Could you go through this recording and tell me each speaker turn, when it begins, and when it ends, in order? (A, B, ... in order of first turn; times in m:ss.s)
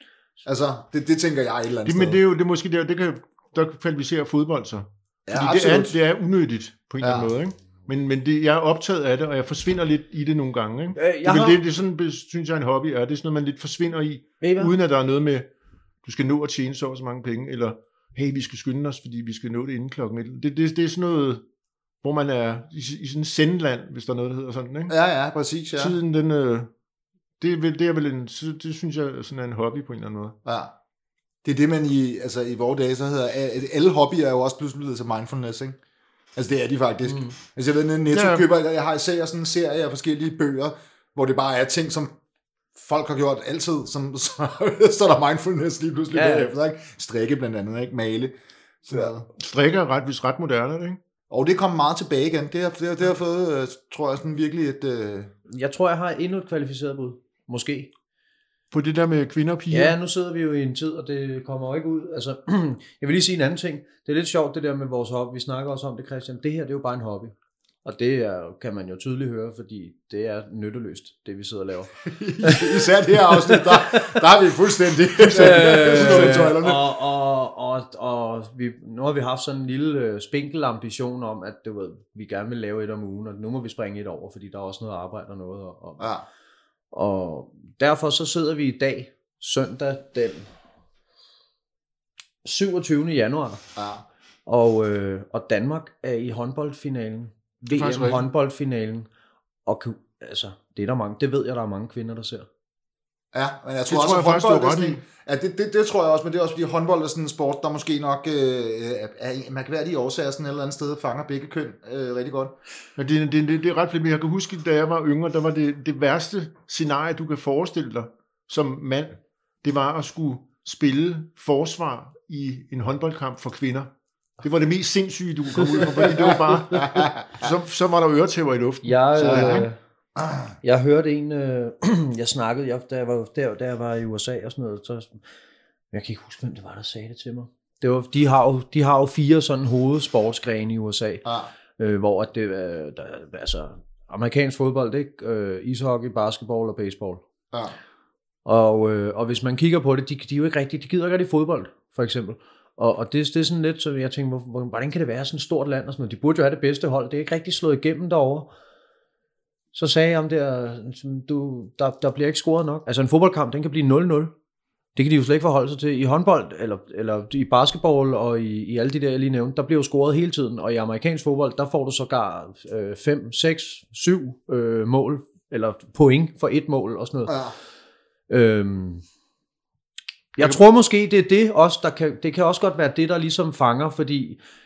0:00.4-0:02.2 A
0:01.8-0:15.5 B
0:05.3-0:05.9 A
0:07.0-0:07.3 A
0:11.0-0:11.6 C
0:14.4-0:14.7 C
0:16.0-0:21.4 B
0:22.0-0:24.9 B
0:24.9-0:25.9 A
0:25.8-0:26.7 B
0:27.4-0:30.4 B
0:30.4-0:30.7 A
0:31.4-0:35.8 A
0:36.4-0:42.2 A
0:38.1-0:38.4 B
0:42.7-0:48.3 A
0:46.1-0:46.5 C
0:48.8-0:49.2 A
0:49.4-0:51.0 B
0:51.3-0:55.3 A
0:55.5-0:57.9 C
0:58.7-0:59.9 B
0:59.7-1:14.2 C
1:12.0-1:16.8 A
1:15.2-1:26.1 C
1:26.0-1:26.2 A
1:26.9-1:30.5 C
1:32.4-1:33.6 C
1:33.8-1:34.0 A
1:34.4-1:39.1 C
1:37.7-1:38.3 B
1:39.6-1:42.5 C
1:43.3-1:52.5 A
1:43.9-1:45.0 B
1:53.0-2:09.7 B
2:08.8-2:09.8 C
2:09.2-2:09.7 A
2:10.2-2:10.4 A
2:10.6-2:15.2 C
2:15.9-2:21.2 C
2:21.2-2:21.5 A
2:21.8-2:27.2 C
2:28.4-2:38.5 C
2:39.7-2:44.3 C
2:45.0-2:57.4 C
2:57.3-2:57.5 A
2:58.3-2:59.0 C
3:00.4-3:04.4 C